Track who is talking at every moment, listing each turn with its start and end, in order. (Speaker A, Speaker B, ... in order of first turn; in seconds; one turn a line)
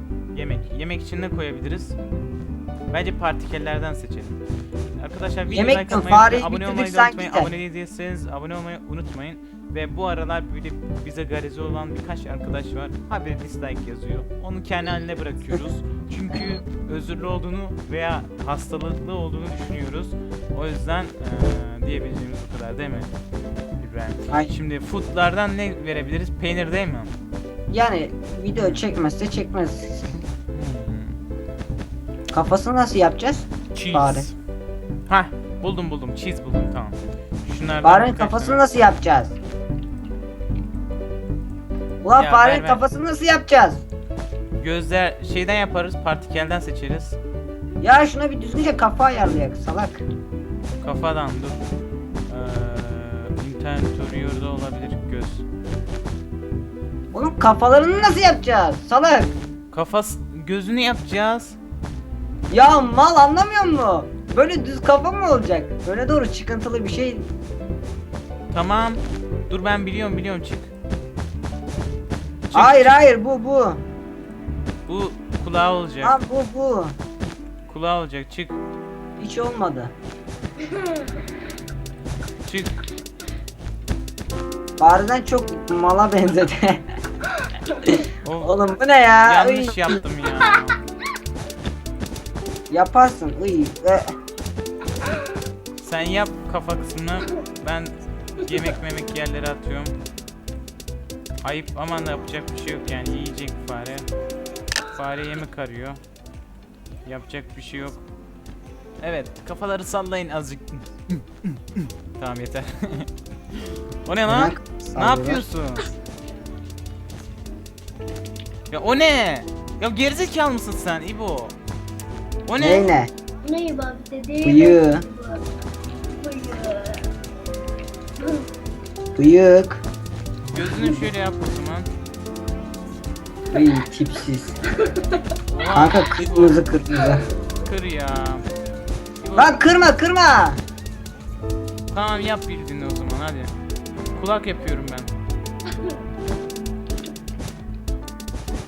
Speaker A: 0.3-2.0
Speaker A: 2.9-4.4
Speaker A: 5.0-23.1
Speaker B: 5.5-7.5
Speaker A: 23.8-27.1
Speaker B: 27.7-30.2
Speaker A: 28.5-28.9
Speaker A: 30.5-31.2
Speaker B: 32.3-34.3
Speaker A: 33.7-34.4
Speaker A: 35.1-38.6
Speaker B: 37.8-39.4
Speaker B: 42.0-43.8
Speaker A: 42.2-42.9
Speaker A: 44.6-47.2
Speaker B: 47.8-50.0
Speaker A: 50.8-51.6
Speaker A: 52.3-55.5
Speaker B: 57.1-59.3
Speaker A: 59.7-61.6
Speaker B: 62.5-67.3
Speaker A: 68.5-70.7
Speaker A: 72.5-73.0
Speaker B: 72.5-73.8
Speaker A: 74.9-76.2
Speaker B: 76.0-77.0
Speaker A: 77.7-78.6
Speaker B: 79.2-79.9
Speaker C: 80.7-81.0
Speaker A: 82.4-82.8
Speaker B: 84.8-86.8
Speaker A: 88.2-88.6
Speaker B: 88.4-90.0
Speaker A: 89.2-90.8
Speaker B: 92.7-94.1
Speaker A: 95.8-100.0
Speaker A: 101.4-104.1
Speaker A: 104.9-106.0
Speaker A: 107.0-108.0
Speaker A: 109.0-115.9
Speaker B: 114.3-115.4
Speaker A: 118.7-121.6
Speaker A: 122.5-122.9
Speaker B: 122.6-123.1
Speaker C: 123.4-125.5
Speaker B: 124.4-125.0
Speaker C: 126.1-127.1
Speaker B: 129.2-129.8
Speaker A: 130.5-131.9
Speaker B: 133.5-134.6
Speaker A: 135.5-136.6
Speaker B: 135.7-137.3
Speaker A: 137.6-138.5
Speaker A: 139.2-139.7
Speaker B: 139.4-140.6
Speaker A: 141.9-143.5
Speaker A: 144.2-145.1